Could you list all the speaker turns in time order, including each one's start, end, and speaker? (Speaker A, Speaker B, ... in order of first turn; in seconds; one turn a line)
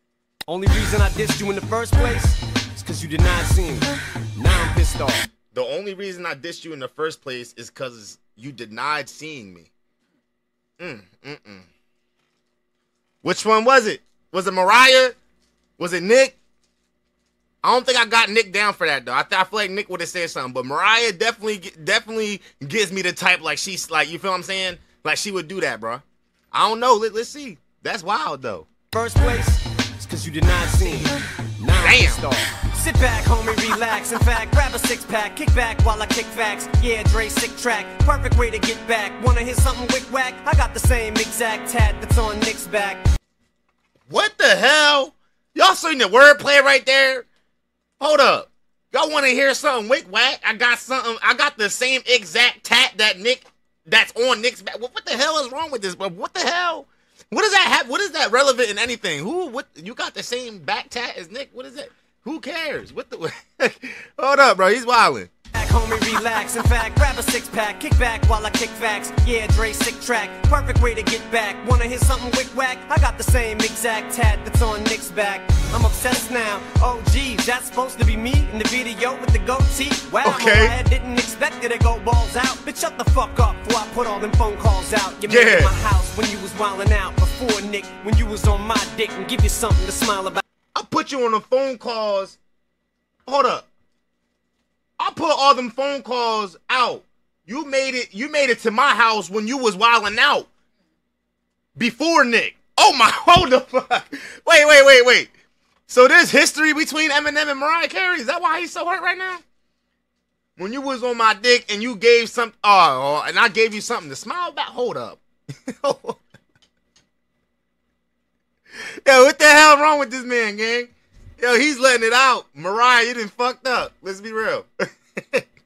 Speaker A: 0.5-5.2
Speaker B: 5.5-9.7
Speaker B: 10.8-11.7
Speaker B: 13.2-15.2
Speaker B: 15.8-16.4
Speaker B: 17.6-28.7
Speaker A: 28.9-43.0
Speaker B: 31.8-32.2
Speaker B: 44.1-47.3
Speaker B: 48.0-65.3
Speaker A: 65.5-90.4
Speaker B: 80.2-80.7
Speaker B: 85.3-85.7
Speaker B: 90.7-92.4
Speaker B: 93.2-93.7
Speaker B: 95.0-100.5
Speaker B: 101.8-105.3
Speaker B: 105.9-109.4
Speaker B: 110.6-116.2
Speaker B: 119.0-125.5